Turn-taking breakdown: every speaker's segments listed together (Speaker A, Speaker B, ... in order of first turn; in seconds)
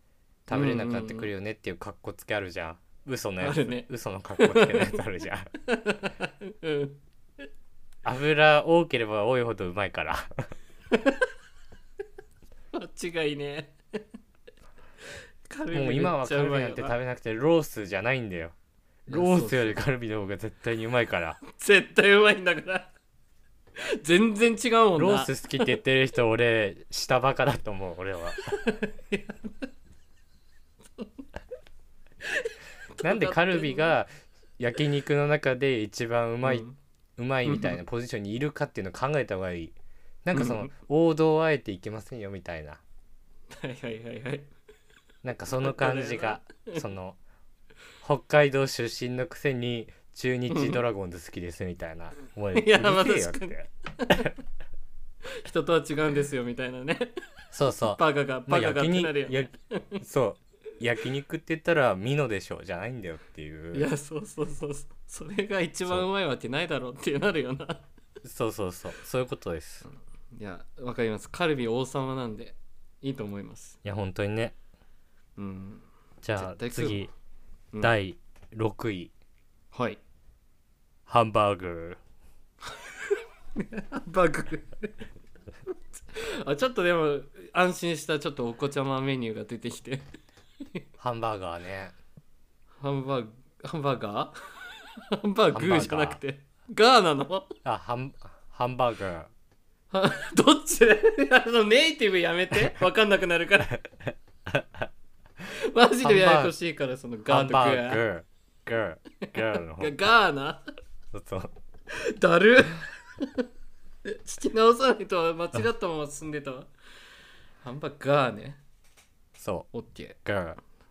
Speaker A: 0.5-5.5, 8.0-10.5, 15.7-18.6, 19.1-21.4, 25.0-28.5, 33.0-36.7, 37.2-42.8, 45.2-47.2, 48.0-53.7, 57.5-63.9, 68.2-69.8, 73.8-74.6, 76.2-77.1, 77.8-79.1, 81.1-82.0, 91.0-92.0, 95.5-96.2, 97.6-99.3, 104.1-104.9, 106.0-106.5, 107.3-110.0, 111.1-111.5, 119.4-119.7, 120.2-120.6
Speaker B: 0.5-1.3, 3.4-5.0, 5.6-7.0, 10.9-11.3, 12.7-13.8, 15.5-16.9, 19.1-19.8, 21.5-22.9, 23.8-25.3, 28.5-29.7, 32.2-33.9, 36.4-36.8, 37.5-37.8, 40.3-40.7, 43.5-44.5, 45.6-46.8, 50.5-50.8, 52.5-54.3, 55.4-57.2, 57.8-60.0, 63.7-67.8, 69.8-73.8, 75.4-77.1, 79.7-80.0, 83.5-85.0, 86.1-90.1, 92.8-97.5, 99.9-103.8, 105.5-108.0, 109.2-110.6, 111.9-113.4, 114.0-116.7, 117.6-118.6, 119.7-120.2